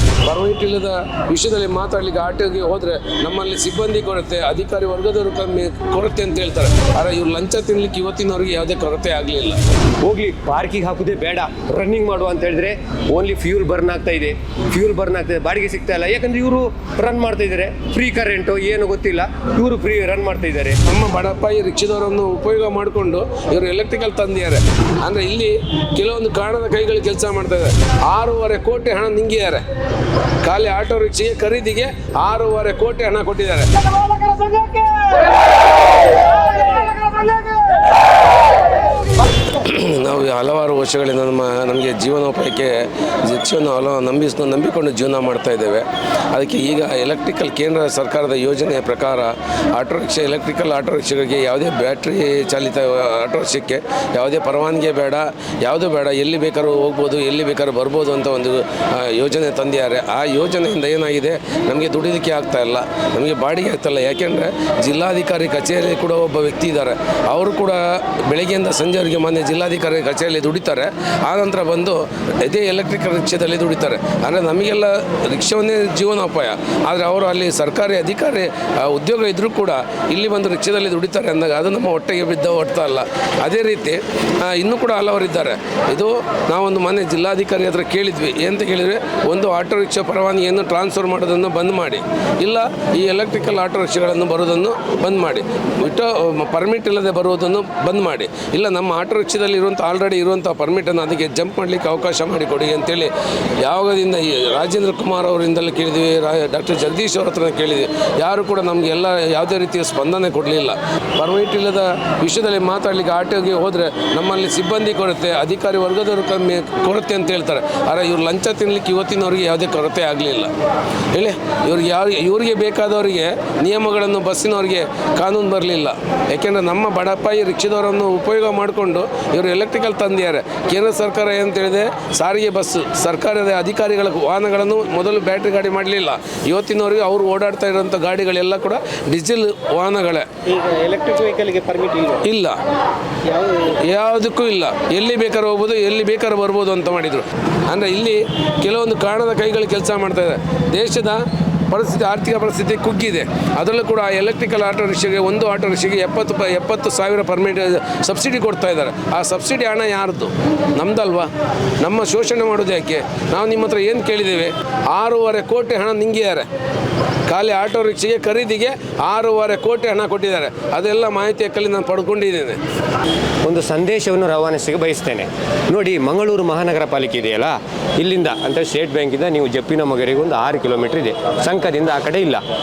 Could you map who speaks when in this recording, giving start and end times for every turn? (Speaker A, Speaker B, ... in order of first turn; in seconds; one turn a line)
Speaker A: 0.2-9.6
Speaker B: 10.0-20.8
Speaker A: 20.8-29.6
Speaker A: 30.4-33.7
Speaker A: 39.6-103.1
Speaker A: 103.6-120.5
Speaker A: 121.1-140.3
Speaker C: 140.5-142.2
Speaker A: 142.2-142.6
Speaker C: 143.3-143.7
Speaker A: 143.9-151.2
Speaker A: 151.7-161.3
Speaker A: 161.8-166.4
Speaker A: 167.3-172.6
Speaker B: 173.4-182.4